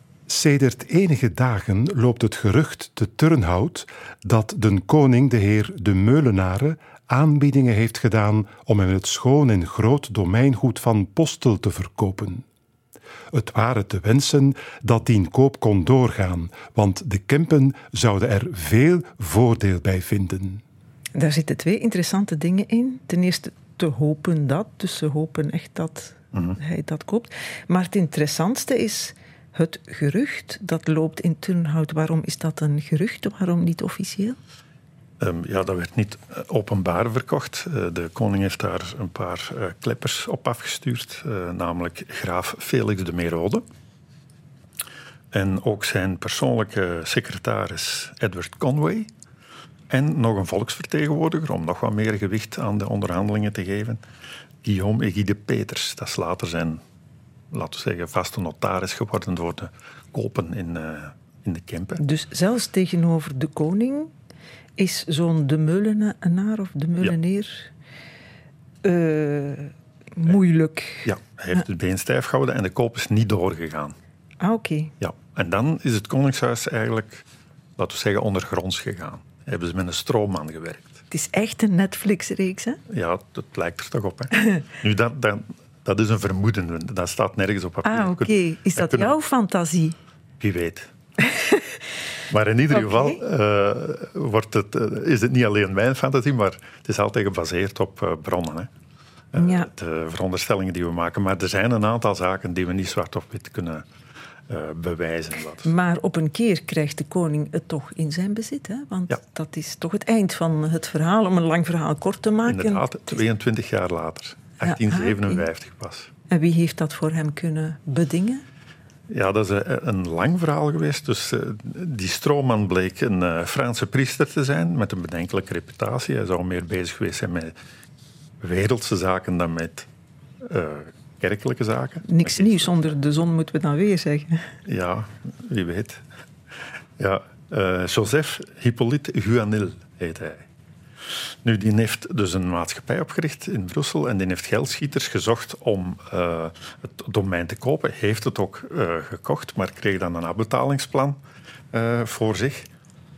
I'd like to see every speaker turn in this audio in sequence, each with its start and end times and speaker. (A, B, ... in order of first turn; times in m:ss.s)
0:00.3-0:12.4 A
0:13.3-0:20.6 A
0:21.1-0:34.4 B
0:26.3-0:26.6 C
0:35.2-0:43.6 C
0:45.3-0:49.1 C
0:49.9-0:54.0 C
0:54.6-0:56.8 C
0:57.5-1:02.0 C
1:02.0-1:04.1 B
1:04.8-1:07.7 B
1:08.8-1:11.6 B
1:11.0-1:13.9 C
1:14.4-1:14.9 B
1:15.0-1:17.2 C
1:17.8-1:21.0 C
1:21.1-1:22.8 B
1:22.9-1:29.1 C
1:27.8-1:30.0 B
1:30.4-1:30.9 C
1:31.3-1:31.6 B
1:32.3-1:38.7 C
1:32.7-1:33.2 B
1:39.3-1:43.8 C
1:39.4-1:39.7 B
1:44.5-1:45.7 C
1:45.6-1:53.2 B
1:52.4-1:56.1 C
1:54.6-1:55.4 B
1:56.3-1:58.4 B
1:59.1-2:07.5 C
2:08.4-2:09.9 C
2:10.4-2:12.9 C
2:12.1-2:14.4 B
2:14.6-2:16.0 C
2:17.0-2:20.4 C
2:21.4-2:31.2 C
2:31.7-2:32.7 C